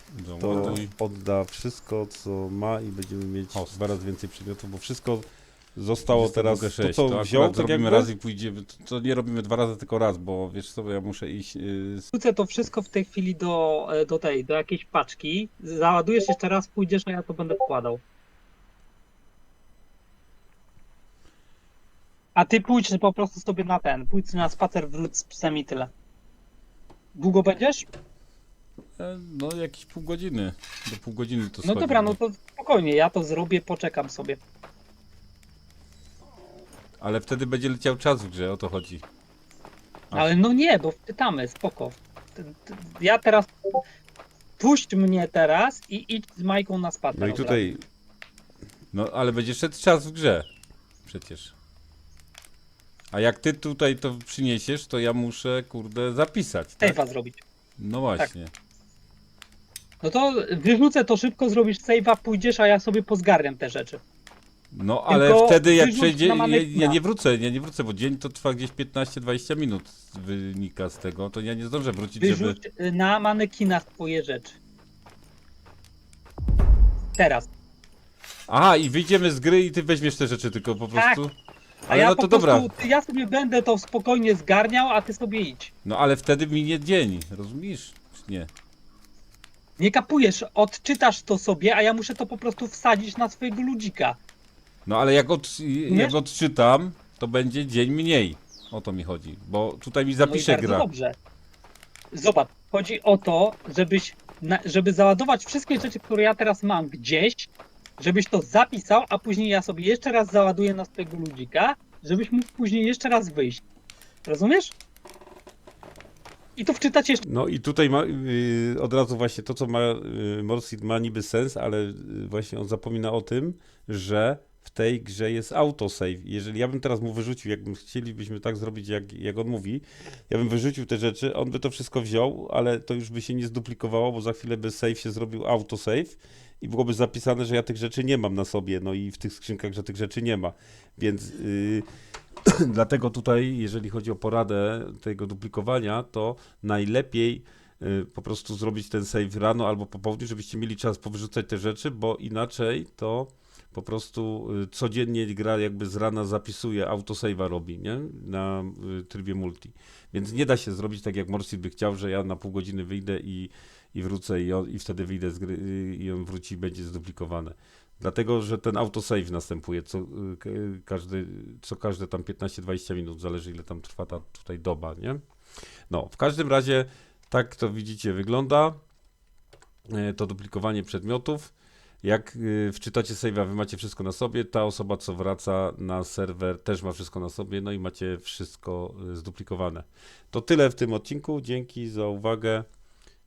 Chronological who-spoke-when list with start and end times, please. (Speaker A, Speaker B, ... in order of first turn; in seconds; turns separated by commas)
Speaker A: 0.1-0.9, Speaker B: 0.4-8.1, Speaker A: 6.1-12.1, Speaker C: 12.1-18.0, Speaker C: 22.4-25.9, Speaker C: 27.1-27.9, Speaker A: 29.0-32.2, Speaker C: 31.6-34.4, Speaker A: 37.0-39.0, Speaker C: 40.1-43.8, Speaker C: 44.6-47.8, Speaker B: 47.1-47.8, Speaker A: 48.9-50.5, Speaker A: 51.0-51.5, Speaker A: 53.1-57.0, Speaker C: 56.8-57.4, Speaker A: 57.8-58.5, Speaker C: 60.0-64.0, Speaker A: 64.7-72.6, Speaker C: 65.1-67.0, Speaker C: 72.2-74.6, Speaker C: 77.2-77.5, Speaker A: 78.5-81.3, Speaker C: 81.9-85.7, Speaker A: 81.9-82.7, Speaker A: 85.8-88.5, Speaker C: 89.8-94.2, Speaker A: 94.8-100.9, Speaker C: 95.9-96.2, Speaker C: 100.2-101.2, Speaker C: 102.1-113.6, Speaker C: 114.3-114.7, Speaker C: 116.6-117.2, Speaker B: 117.2-141.9, Speaker B: 142.5-175.2, Speaker B: 175.9-178.8, Speaker B: 179.9-181.5, Speaker B: 182.0-192.7